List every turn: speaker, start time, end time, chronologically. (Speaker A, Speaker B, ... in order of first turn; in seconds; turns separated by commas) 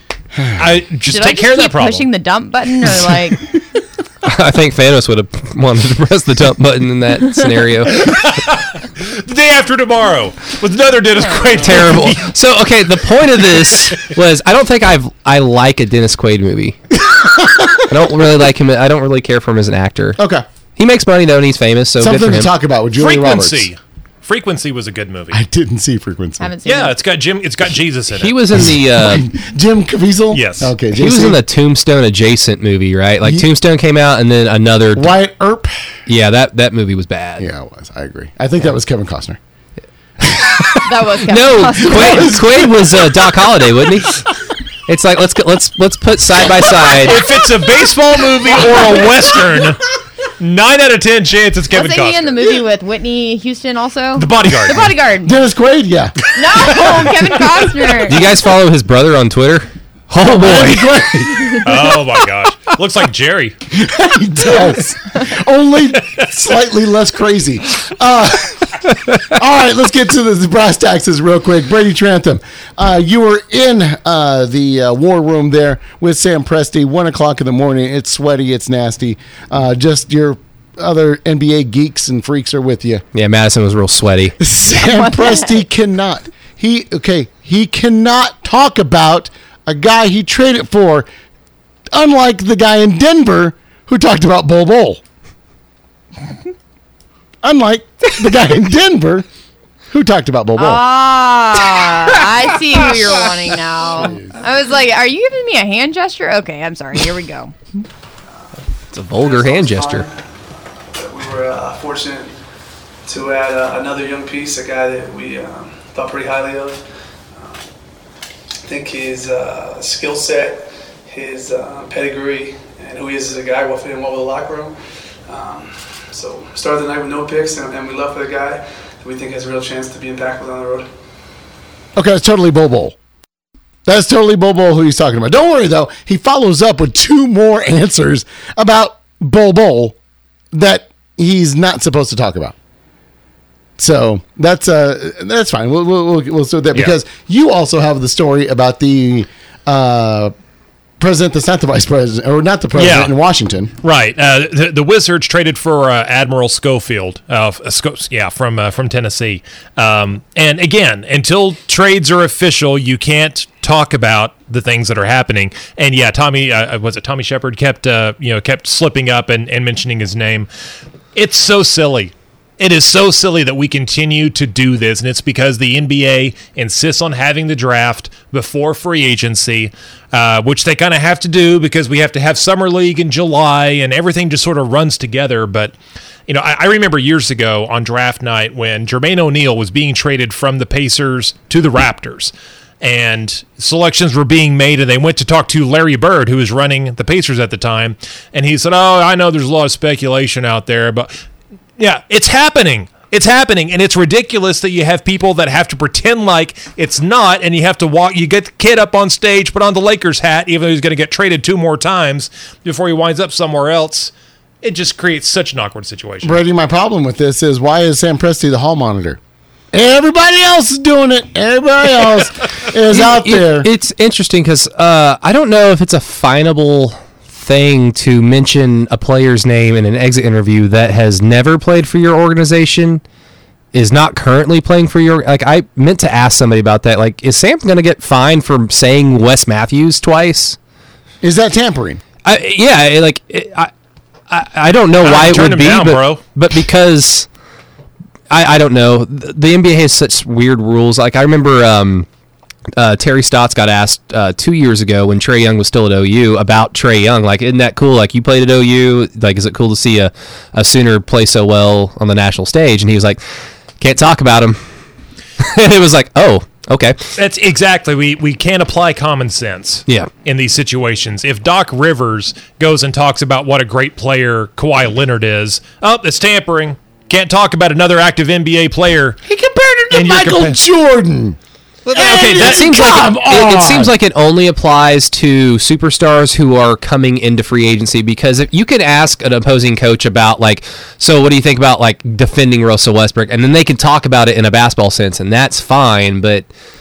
Speaker A: 0.3-0.6, Speaker B: 0.6-2.1, Speaker C: 1.1-3.5, Speaker D: 4.2-8.2, Speaker B: 8.0-12.3, Speaker C: 11.2-11.5, Speaker D: 11.6-16.8, Speaker A: 17.0-17.9, Speaker D: 17.9-20.2, Speaker A: 20.2-20.4, Speaker D: 20.8-22.5, Speaker A: 22.0-23.7, Speaker B: 23.0-25.4, Speaker A: 25.3-26.5, Speaker C: 26.4-26.9, Speaker B: 26.7-28.7, Speaker D: 28.1-29.2, Speaker A: 28.5-31.4, Speaker B: 30.3-30.7, Speaker D: 30.9-35.2, Speaker A: 33.2-33.5, Speaker A: 35.0-35.9, Speaker D: 36.1-37.5, Speaker A: 37.4-39.4, Speaker D: 40.2-44.2, Speaker C: 40.8-42.4, Speaker A: 41.9-43.0, Speaker D: 44.9-47.2, Speaker B: 46.9-52.5, Speaker A: 48.5-49.2, Speaker C: 51.7-55.4, Speaker B: 54.2-54.9, Speaker A: 55.2-56.8, Speaker C: 56.3-58.3, Speaker B: 56.6-57.1, Speaker D: 58.1-61.0, Speaker A: 60.2-62.0, Speaker C: 61.4-61.6, Speaker B: 61.6-63.6, Speaker A: 63.7-83.0, Speaker D: 83.1-84.4, Speaker A: 84.4-91.1, Speaker C: 84.7-85.6, Speaker A: 91.9-95.0, Speaker A: 97.4-99.3, Speaker A: 99.9-100.8, Speaker C: 100.6-107.5, Speaker A: 103.9-104.4, Speaker D: 108.9-110.1, Speaker E: 109.1-112.4, Speaker E: 113.0-117.7, Speaker E: 118.7-130.9, Speaker A: 132.0-133.0, Speaker A: 133.8-140.0, Speaker A: 140.5-142.6, Speaker A: 143.8-150.3, Speaker A: 151.0-153.7, Speaker B: 152.8-153.1, Speaker B: 153.8-170.5, Speaker B: 171.2-185.8, Speaker B: 186.3-201.1, Speaker B: 201.8-214.1, Speaker B: 214.6-216.4, Speaker A: 216.2-219.2, Speaker A: 219.7-223.7, Speaker D: 222.9-233.0, Speaker D: 233.7-240.6, Speaker A: 241.2-242.0, Speaker D: 242.2-243.7, Speaker D: 244.3-247.3, Speaker B: 245.0-246.2, Speaker D: 248.3-252.1, Speaker D: 252.8-263.2, Speaker D: 263.8-264.6, Speaker D: 265.4-267.0, Speaker B: 267.2-279.2, Speaker A: 279.2-281.4, Speaker B: 279.9-280.6, Speaker B: 281.9-282.7, Speaker A: 281.9-283.9, Speaker D: 282.3-296.5